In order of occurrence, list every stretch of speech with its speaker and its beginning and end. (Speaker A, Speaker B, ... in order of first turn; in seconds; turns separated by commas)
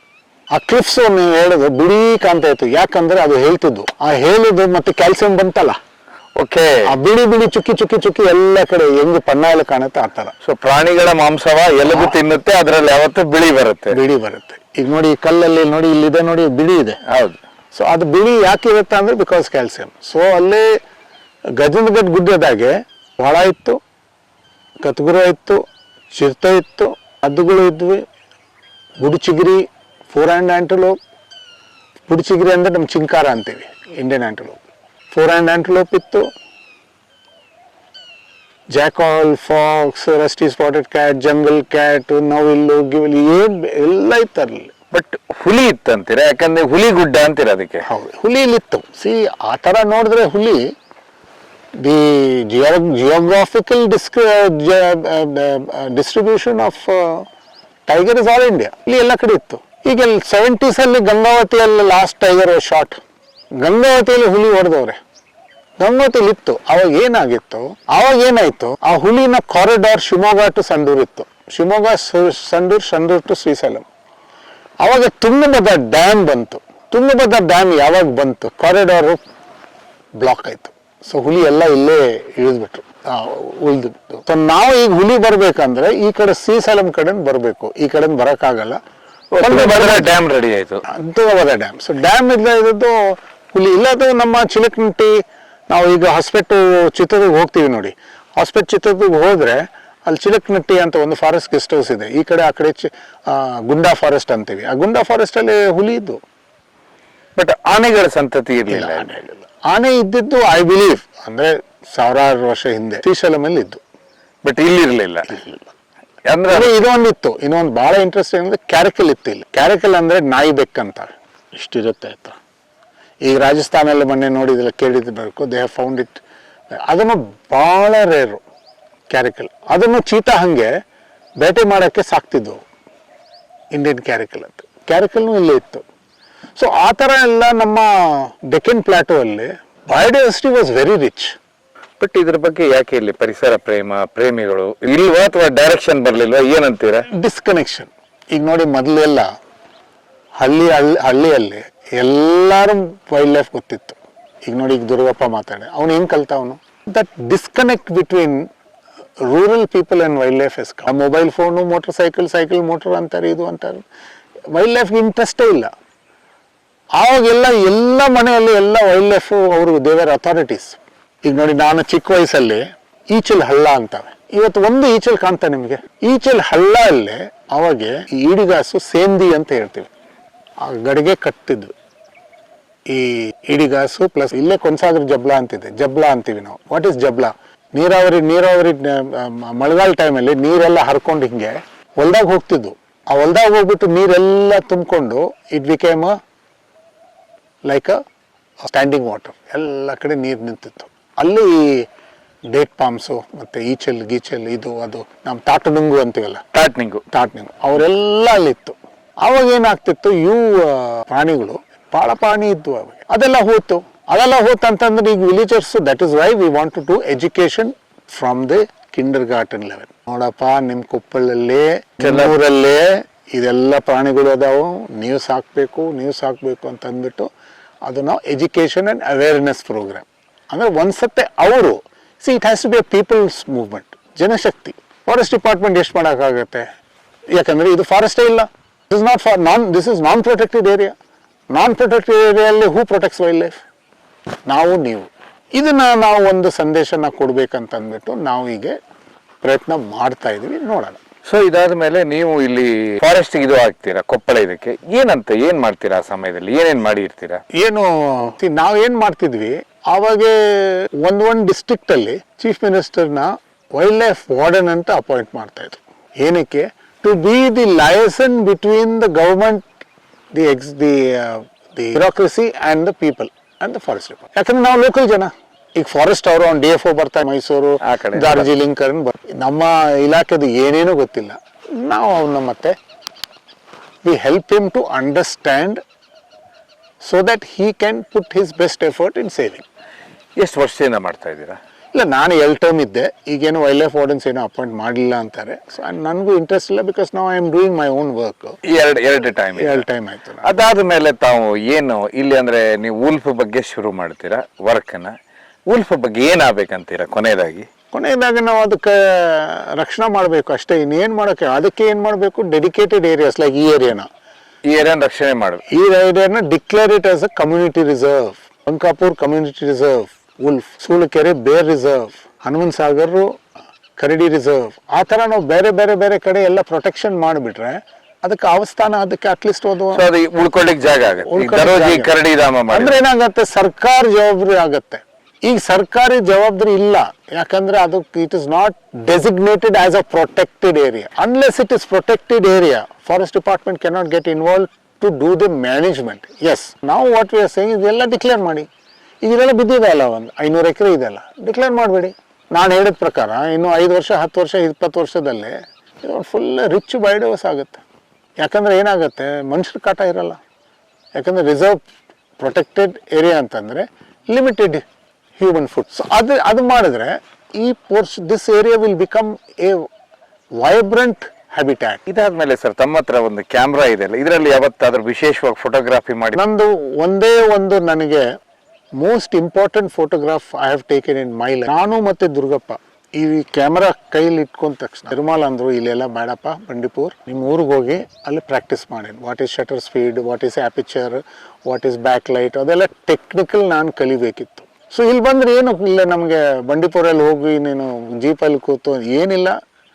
Speaker A: 0.5-5.8, Speaker B: 6.3-6.8, Speaker A: 6.8-10.3, Speaker B: 10.4-14.0, Speaker A: 11.9-12.2, Speaker A: 13.9-17.0, Speaker B: 17.1-17.4, Speaker A: 17.7-20.8, Speaker A: 21.6-23.8, Speaker A: 24.8-28.0, Speaker A: 29.0-30.9, Speaker A: 32.1-34.6, Speaker A: 35.1-36.3, Speaker A: 38.7-44.7, Speaker B: 44.9-47.9, Speaker A: 47.8-50.6, Speaker A: 51.8-57.3, Speaker A: 57.9-63.0, Speaker A: 63.6-65.0, Speaker A: 65.8-73.8, Speaker A: 74.8-79.2, Speaker A: 80.2-88.8, Speaker B: 89.3-90.8, Speaker A: 89.4-90.1, Speaker A: 90.9-106.2, Speaker B: 107.3-109.1, Speaker A: 108.7-113.8, Speaker B: 114.4-115.4, Speaker A: 115.3-115.6, Speaker B: 116.2-116.7, Speaker A: 116.5-122.4, Speaker A: 123.2-126.2, Speaker A: 126.7-128.4, Speaker A: 129.1-130.7, Speaker A: 131.4-132.6, Speaker A: 133.7-135.8, Speaker A: 136.6-141.3, Speaker B: 142.0-147.1, Speaker A: 147.1-149.2, Speaker A: 150.4-158.5, Speaker A: 159.3-163.8, Speaker A: 164.5-165.7, Speaker A: 167.0-179.9, Speaker A: 180.6-181.7, Speaker A: 182.9-196.2, Speaker A: 197.7-198.0, Speaker A: 198.7-201.8, Speaker A: 202.5-206.4, Speaker B: 206.5-207.0, Speaker A: 207.1-227.3, Speaker B: 222.0-222.4, Speaker A: 227.8-236.7, Speaker A: 237.3-240.9, Speaker A: 241.5-243.6, Speaker A: 244.5-248.8, Speaker A: 249.4-251.0, Speaker B: 251.2-257.4, Speaker A: 257.5-269.7, Speaker A: 270.3-282.8, Speaker B: 277.8-278.5, Speaker A: 284.0-285.8, Speaker A: 287.0-289.6, Speaker B: 290.4-291.6, Speaker A: 291.9-298.6, Speaker B: 298.6-299.9, Speaker A: 299.6-300.5, Speaker B: 300.4-305.1, Speaker B: 305.7-307.6, Speaker A: 307.9-314.1, Speaker B: 314.6-315.6, Speaker A: 315.7-323.4, Speaker A: 324.0-330.0, Speaker B: 329.9-333.0, Speaker A: 331.0-332.1, Speaker A: 332.7-348.7, Speaker A: 349.2-357.8, Speaker A: 358.4-360.4, Speaker A: 361.2-361.8, Speaker A: 362.4-364.8, Speaker A: 365.4-369.9, Speaker A: 370.6-372.0, Speaker B: 372.1-376.4, Speaker A: 376.4-378.2, Speaker A: 379.0-399.6